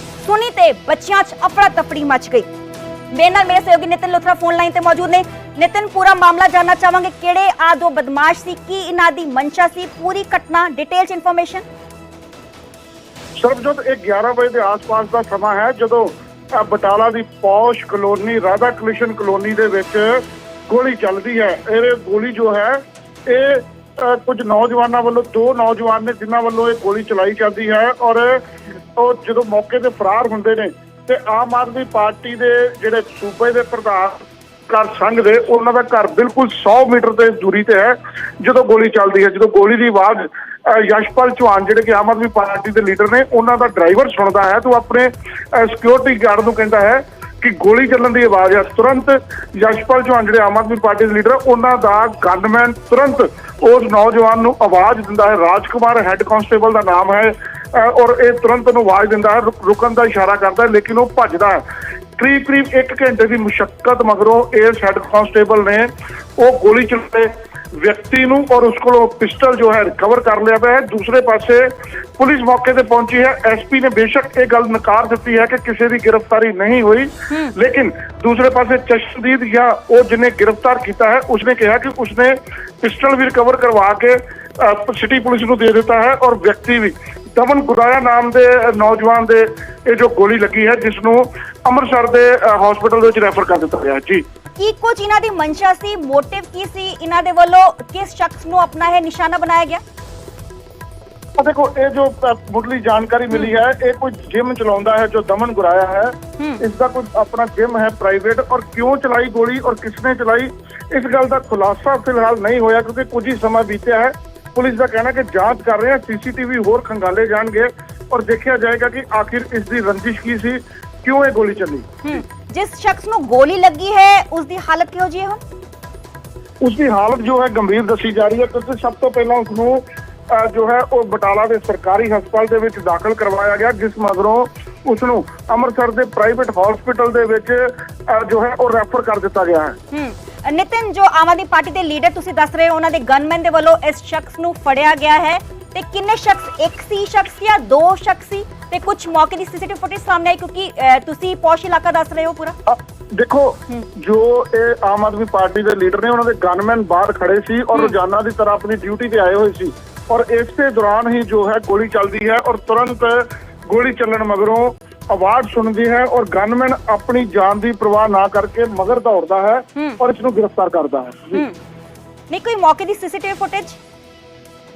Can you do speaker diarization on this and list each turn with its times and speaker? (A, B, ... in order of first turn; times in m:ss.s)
0:00.2-0:02.5 A
0:03.1-0:11.6 A
0:13.4-0:28.4 B
0:29.0-1:01.6 B
1:02.2-1:34.2 B
1:34.6-1:39.8 A
1:41.4-2:01.9 B
2:02.0-2:05.4 A
2:06.6-2:19.8 B
2:19.9-2:32.6 A
2:32.7-2:51.4 B
2:52.3-2:53.8 A